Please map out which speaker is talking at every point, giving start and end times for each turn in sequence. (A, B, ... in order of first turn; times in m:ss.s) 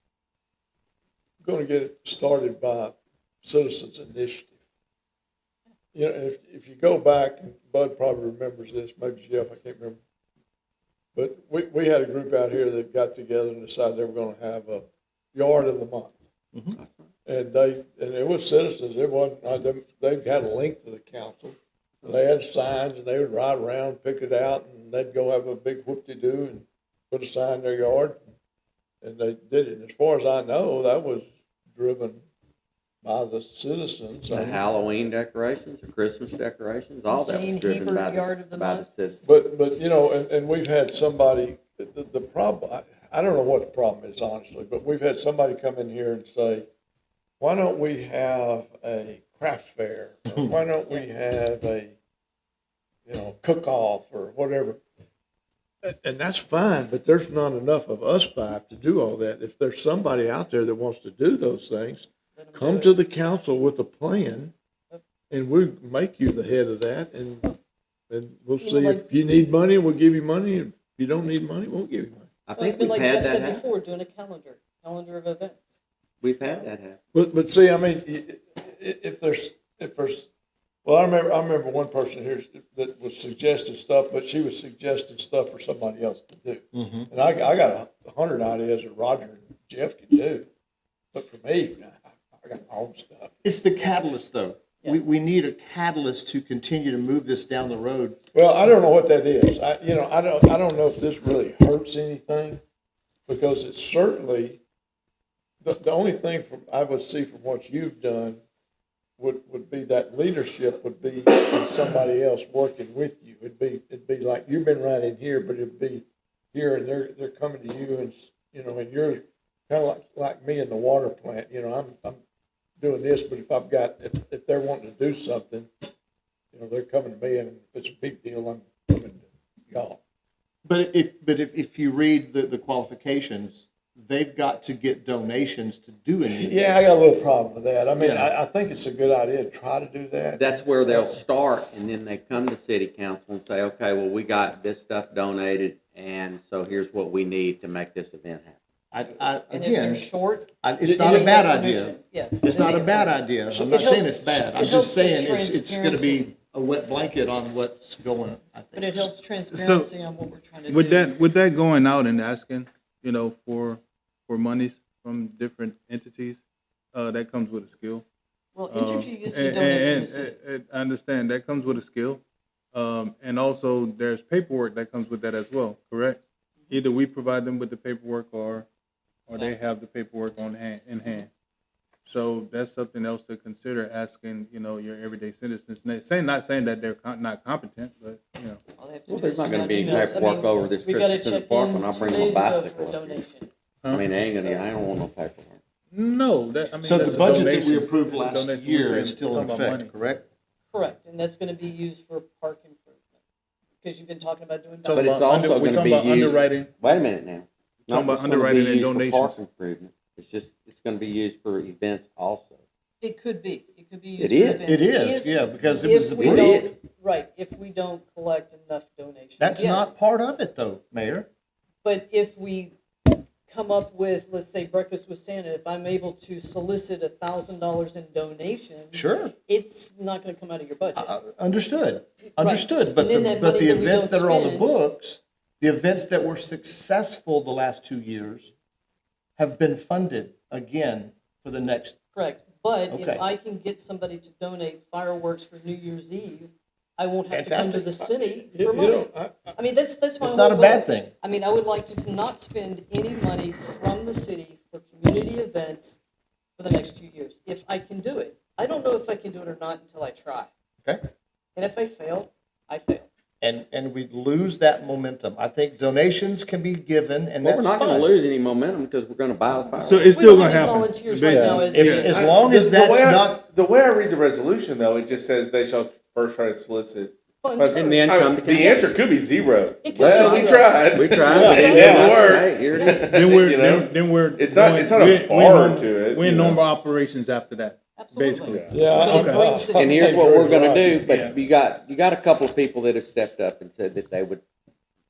0:01.4-0:04.5 A
0:05.9-0:10.0 A
0:11.2-0:16.2 A
0:16.8-0:17.1 B
0:17.3-0:28.2 A
0:29.0-0:32.2 A
0:33.0-0:34.6 A
0:34.3-0:39.3 B
0:37.1-0:38.9 C
0:39.2-0:46.7 A
0:47.4-0:52.0 A
0:53.1-0:54.8 A
0:55.8-1:04.5 A
1:02.4-1:03.0 C
1:05.3-1:07.6 A
1:08.1-1:12.3 A
1:08.6-1:09.1 C
1:12.5-1:13.6 B
1:12.6-1:15.6 C
1:16.2-1:17.0 B
1:17.1-1:20.3 A
1:20.8-1:30.5 A
1:26.7-1:27.1 D
1:31.1-1:33.4 A
1:33.4-1:38.2 D
1:38.3-1:42.6 A
1:43.3-1:44.6 A
1:45.6-1:48.4 A
1:49.2-2:02.2 A
2:02.8-2:05.7 A
2:06.5-2:10.0 A
2:10.6-2:17.0 D
2:16.3-2:21.2 A
2:18.0-2:18.3 D
2:20.4-2:28.6 B
2:28.9-2:30.1 D
2:29.5-2:36.3 C
2:30.6-2:39.1 D
2:33.5-2:34.2 A
2:38.7-2:41.2 C
2:39.5-2:39.9 E
2:40.7-2:46.4 E
2:46.9-2:48.0 E
2:48.6-2:50.3 C
2:48.7-2:52.2 E
2:52.7-2:58.7 E
2:59.3-3:01.3 E
2:59.3-2:59.6 C
3:02.0-3:08.6 E
3:08.8-3:13.5 C
3:09.1-3:13.2 B
3:13.9-3:15.6 B
3:14.4-3:14.7 C
3:15.9-3:19.9 E
3:16.8-3:20.2 D
3:20.7-3:23.1 C
3:23.8-3:25.8 C
3:24.8-3:26.7 E
3:24.9-3:32.6 B
3:27.9-3:29.4 E
3:33.0-3:39.9 C
3:34.2-3:34.6 B
3:34.7-3:36.6 D
3:36.2-3:36.7 B
3:39.4-3:41.3 D
3:41.8-3:51.2 C
3:48.9-3:49.3 D
3:51.0-3:58.5 D
3:52.4-3:54.8 C
3:59.4-4:02.0 D
4:02.1-4:16.0 C
4:02.9-4:03.3 D
4:07.3-4:08.1 D
4:08.5-4:09.6 A
4:10.2-4:11.1 D
4:16.6-4:20.5 C
4:21.6-4:23.1 C
4:23.4-4:28.1 D
4:27.4-4:30.1 B
4:27.8-4:28.0 C
4:29.8-4:32.2 E
4:30.1-4:32.4 C
4:31.3-4:31.6 A
4:31.3-4:33.4 D
4:32.1-4:46.6 F
4:37.4-4:39.0 C
4:37.7-4:38.8 B
4:39.8-4:40.9 C
4:39.9-4:43.0 B
4:41.3-4:42.1 D
4:41.5-4:43.1 C
4:43.1-4:49.4 E
4:48.0-4:50.4 C
4:48.7-4:51.0 A
4:49.8-4:54.4 B
4:51.0-4:51.4 E